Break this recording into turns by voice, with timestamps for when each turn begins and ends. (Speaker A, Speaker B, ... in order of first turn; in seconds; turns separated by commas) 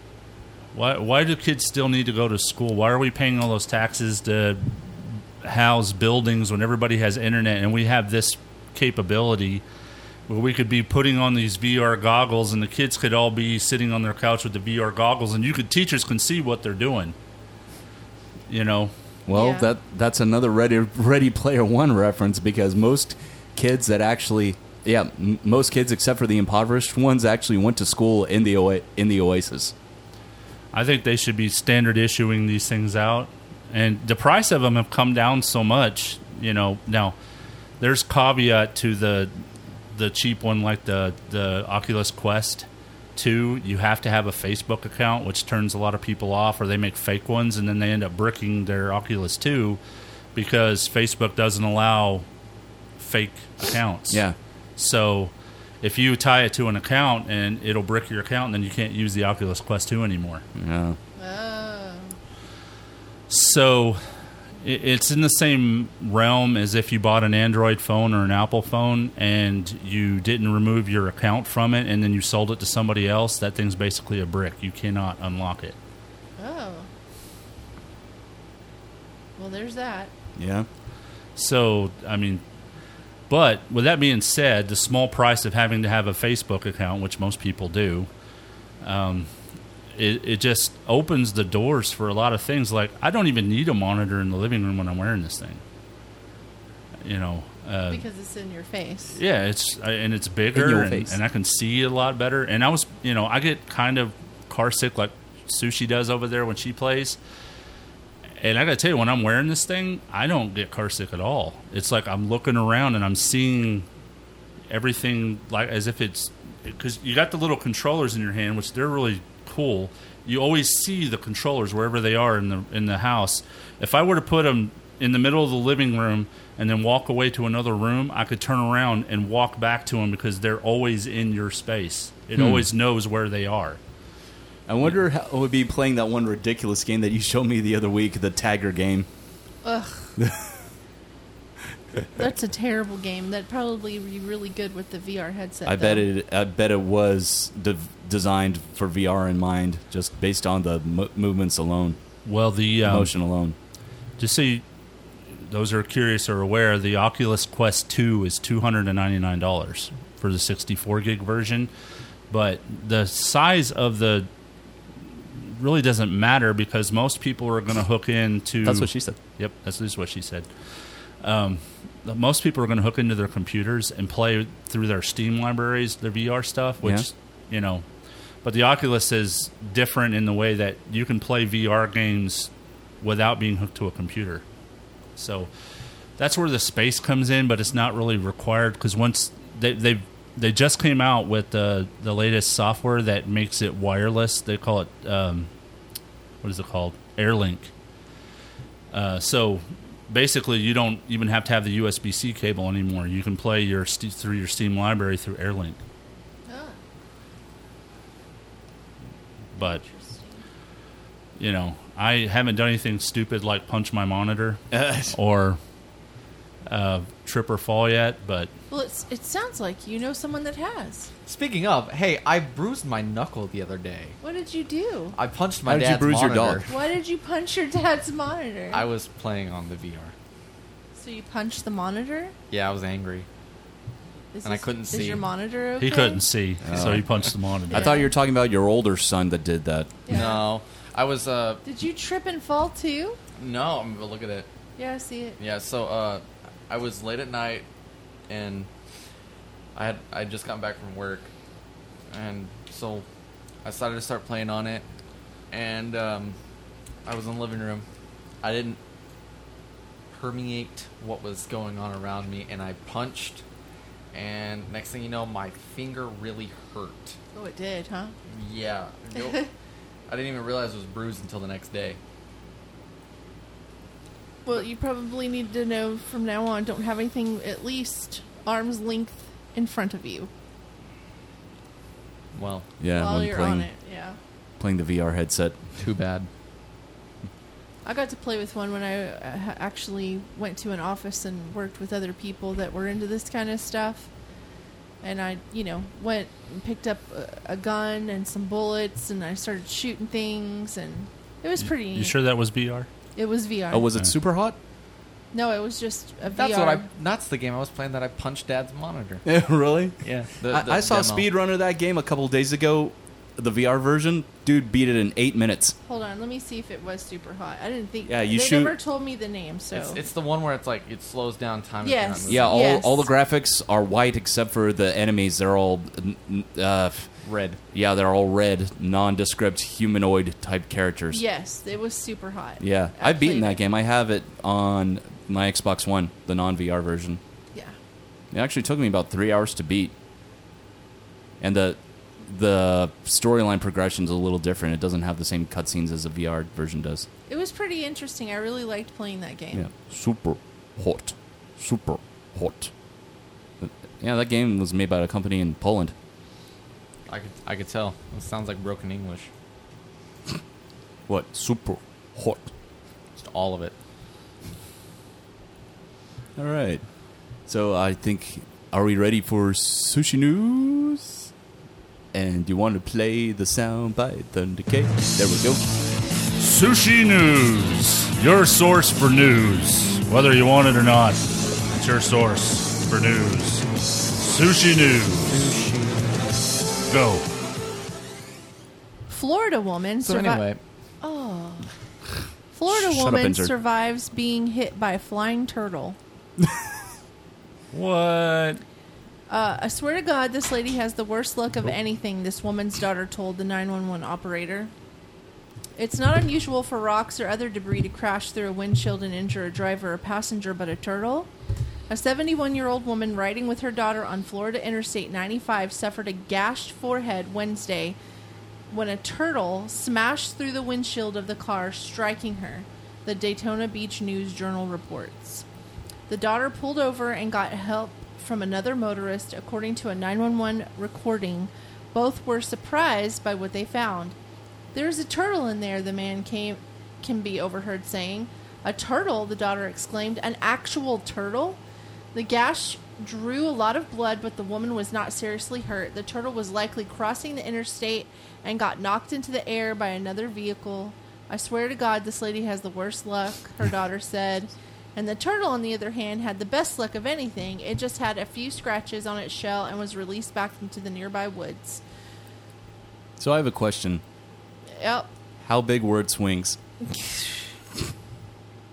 Speaker A: 0.7-4.8, Speaker A: 5.4-9.6, Speaker A: 10.3-17.1, Speaker A: 18.5-18.9, Speaker B: 19.3-29.7, Speaker C: 19.3-19.7, Speaker A: 30.7-37.1, Speaker A: 37.8-39.3, Speaker A: 39.9-49.8, Speaker A: 50.3-52.2, Speaker A: 53.0-54.2, Speaker B: 54.1-54.4, Speaker A: 54.8-60.4, Speaker B: 60.5-61.0, Speaker C: 61.2-62.1, Speaker A: 63.3-64.0, Speaker A: 64.6-75.8, Speaker C: 76.4-76.9, Speaker C: 79.4-80.1, Speaker B: 80.3-80.7, Speaker A: 81.3-82.4, Speaker A: 83.3-88.1, Speaker A: 88.8-89.3, Speaker A: 89.9-95.6, Speaker A: 97.0-98.0, Speaker C: 97.9-99.2, Speaker A: 99.1-107.2, Speaker B: 100.5-101.2, Speaker A: 108.4-113.9, Speaker A: 114.7-133.8, Speaker B: 132.3-132.7, Speaker B: 134.7-139.1, Speaker C: 139.6-140.1, Speaker B: 140.2-140.6, Speaker C: 142.2-146.0, Speaker B: 145.6-152.0, Speaker A: 152.2-153.1, Speaker B: 152.8-153.6, Speaker A: 154.2-154.6, Speaker A: 155.5-161.7, Speaker A: 162.3-164.3, Speaker A: 165.4-170.5, Speaker B: 168.6-169.2, Speaker A: 171.2-177.8, Speaker B: 176.8-177.1, Speaker A: 178.4-182.5, Speaker A: 183.0-184.4, Speaker A: 185.2-185.5, Speaker A: 186.2-195.5, Speaker A: 196.4-197.7, Speaker A: 198.9-205.8, Speaker C: 206.5-206.8, Speaker A: 209.6-209.8, Speaker C: 209.6-210.4, Speaker A: 211.4-215.6, Speaker B: 214.7-215.2, Speaker A: 216.7-218.5, Speaker C: 218.7-221.1, Speaker D: 221.2-224.2, Speaker C: 224.2-225.2, Speaker D: 225.1-226.7, Speaker B: 225.6-226.7, Speaker C: 226.7-228.9, Speaker D: 228.7-230.1, Speaker C: 230.9-232.3, Speaker D: 232.5-233.3, Speaker C: 234.3-236.2, Speaker D: 234.4-235.2, Speaker A: 235.8-237.9, Speaker B: 236.6-240.0, Speaker C: 237.7-238.1, Speaker C: 240.1-240.4, Speaker D: 240.1-241.6, Speaker C: 241.6-243.2, Speaker D: 243.4-244.5, Speaker C: 244.8-245.4, Speaker D: 245.4-247.6, Speaker D: 248.3-248.7, Speaker D: 249.7-251.3, Speaker D: 252.1-253.1, Speaker D: 253.6-254.8, Speaker D: 255.5-256.4, Speaker D: 257.0-257.9, Speaker D: 258.4-258.8, Speaker D: 260.1-263.4, Speaker D: 264.1-267.1, Speaker C: 267.3-268.1, Speaker D: 268.3-269.4, Speaker C: 269.1-269.5, Speaker D: 270.1-272.0, Speaker C: 274.4-280.3, Speaker D: 282.3-282.7, Speaker B: 282.8-283.7, Speaker C: 282.9-284.2, Speaker B: 284.6-285.6, Speaker D: 285.8-286.3, Speaker C: 287.8-294.1, Speaker C: 295.0-302.1, Speaker A: 301.6-302.9, Speaker C: 303.1-303.9, Speaker B: 303.7-304.6, Speaker C: 305.3-306.9, Speaker D: 306.3-309.2, Speaker B: 309.2-315.7, Speaker D: 310.0-311.3, Speaker C: 315.8-320.0, Speaker B: 318.1-318.8, Speaker D: 319.7-322.6, Speaker C: 321.8-323.1, Speaker B: 322.3-327.1, Speaker D: 327.2-327.6, Speaker B: 327.7-331.2, Speaker C: 331.1-333.6, Speaker B: 332.6-337.2, Speaker B: 338.3-339.9, Speaker B: 341.4-347.1, Speaker C: 347.3-349.7, Speaker B: 349.5-352.7, Speaker B: 353.6-355.9, Speaker D: 357.1-359.3, Speaker B: 361.1-362.5, Speaker D: 363.1-363.7, Speaker B: 366.4-366.8, Speaker B: 367.5-371.3, Speaker B: 372.1-375.7, Speaker A: 376.4-385.3, Speaker D: 385.3-386.3, Speaker A: 386.9-387.2, Speaker C: 389.1-390.5, Speaker D: 390.0-390.6, Speaker C: 391.0-391.7, Speaker C: 392.5-396.0, Speaker B: 392.7-393.5, Speaker A: 397.7-398.6, Speaker C: 399.3-404.7, Speaker C: 405.8-411.3, Speaker C: 411.9-418.0, Speaker C: 418.7-425.4, Speaker C: 426.1-434.1, Speaker C: 434.7-441.6, Speaker C: 442.1-461.8, Speaker B: 463.2-464.0, Speaker C: 464.8-465.1, Speaker B: 465.4-466.6